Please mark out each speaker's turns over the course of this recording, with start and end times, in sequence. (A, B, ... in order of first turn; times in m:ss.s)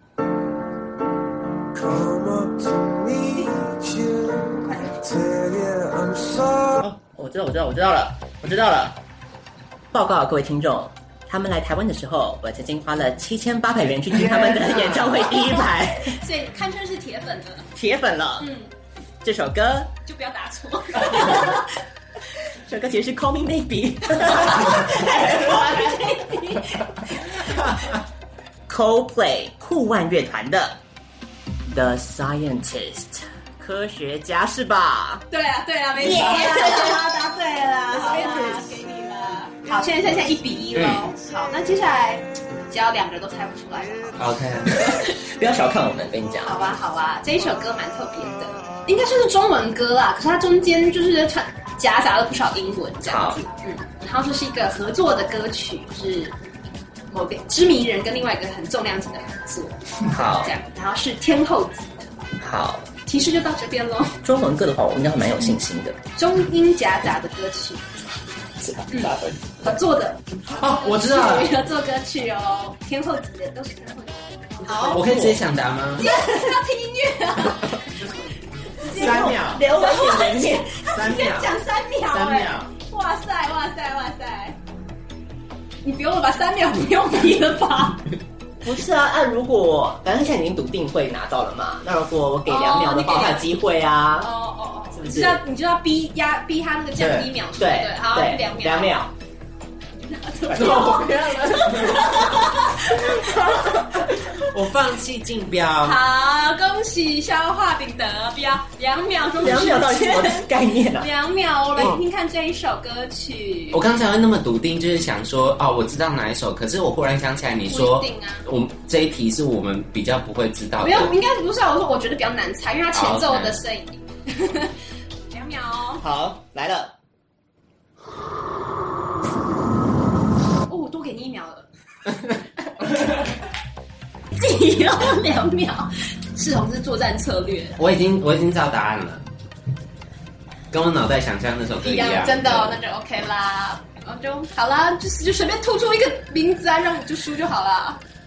0:01.7-0:06.8 A
0:04.6-0:05.1 B
0:06.8-0:09.0 C
0:09.9-0:16.2 C
0:14.9-0:17.7 B
0:17.8-0:18.5 C
0:18.4-0:18.7 B
0:19.2-0:19.9 C
0:20.1-0:21.7 B
0:21.0-0:21.6 C
0:22.5-0:26.4 C
0:24.4-0:27.0 B
0:27.1-0:27.8 C
0:28.7-0:30.8 C
0:31.7-0:35.3 C
0:35.3-0:45.2 B
0:36.0-0:38.8 C
0:39.7-0:40.1 C
0:40.8-0:41.0 D
0:44.2-0:44.7 D
0:44.7-0:46.6 C
0:46.4-0:56.4 B
0:53.1-0:53.4 C
0:57.1-1:02.1 B
1:00.1-1:00.5 C
1:02.4-1:02.9 C
1:03.1-1:04.2 B
1:04.2-1:06.0 C
1:06.2-1:08.0 B
1:08.6-1:09.4 C
1:08.9-1:15.2 B
1:10.5-1:11.5 D
1:14.8-1:15.4 C
1:14.8-1:16.0 D
1:16.0-1:17.9 B
1:18.0-1:18.3 D
1:18.8-1:24.6 B
1:18.8-1:19.6 D
1:18.9-1:20.7 C
1:20.9-1:22.7 D
1:25.8-1:28.1 B
1:28.6-1:34.3 C
1:32.5-1:33.5 B
1:34.2-1:39.0 B
1:34.9-1:35.4 C
1:37.0-1:37.3 D
1:37.6-1:39.1 C
1:40.0-1:44.2 B
1:40.5-1:42.4 D
1:40.6-1:41.0 C
1:44.0-1:46.0 D
1:45.8-1:53.8 B
1:49.4-1:51.1 C
1:53.7-2:01.1 D
1:57.7-1:58.4 B
2:00.8-2:04.7 B
2:02.9-2:03.6 D
2:05.3-2:06.0 B
2:06.0-2:06.9 C
2:10.7-2:11.7 B
2:14.4-2:17.8 B
2:17.8-2:19.2 D
2:20.7-2:22.8 D
2:21.8-2:28.0 B